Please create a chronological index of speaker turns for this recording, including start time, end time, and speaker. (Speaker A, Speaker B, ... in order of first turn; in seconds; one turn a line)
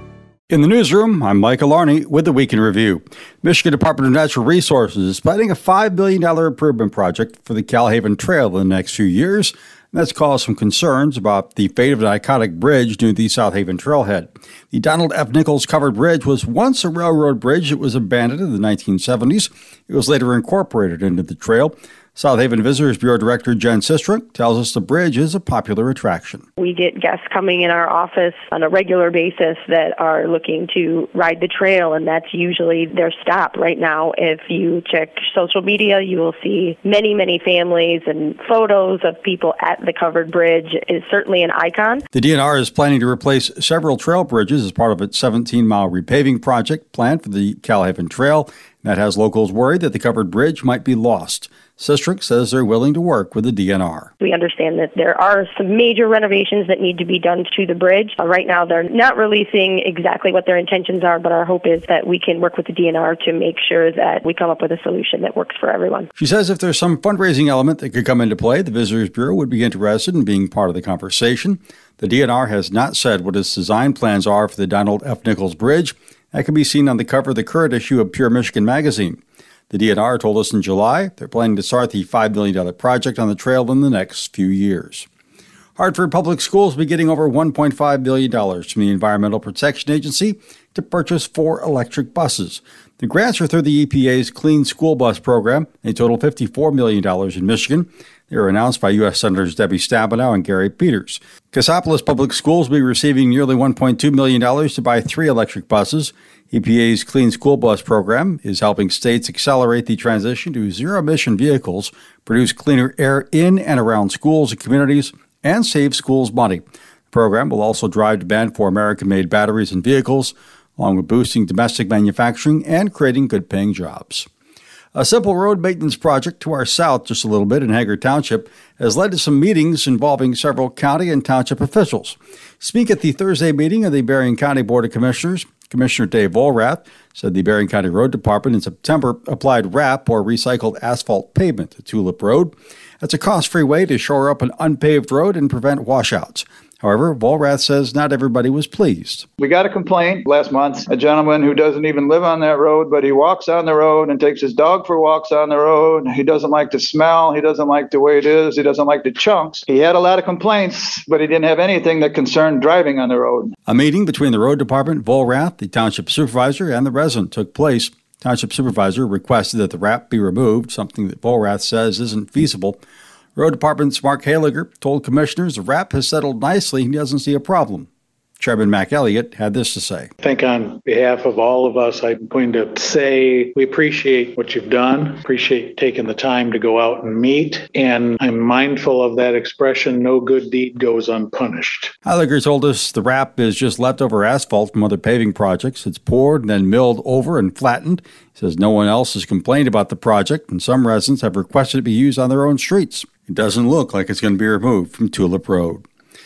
Speaker A: 0.5-26.4
Speaker B: 26.6-42.0
Speaker A: 42.1-54.1
Speaker B: 54.2-66.1
Speaker A: 66.1-79.2
Speaker A: 79.7-85.1
Speaker A: 85.8-124.3
Speaker A: 124.9-149.2
Speaker C: 149.4-163.5
Speaker A: 163.7-172.8
Speaker A: 173.3-177.9
Speaker A: 178.4-180.1
Speaker D: 180.2-191.9
Speaker A: 192.1-205.8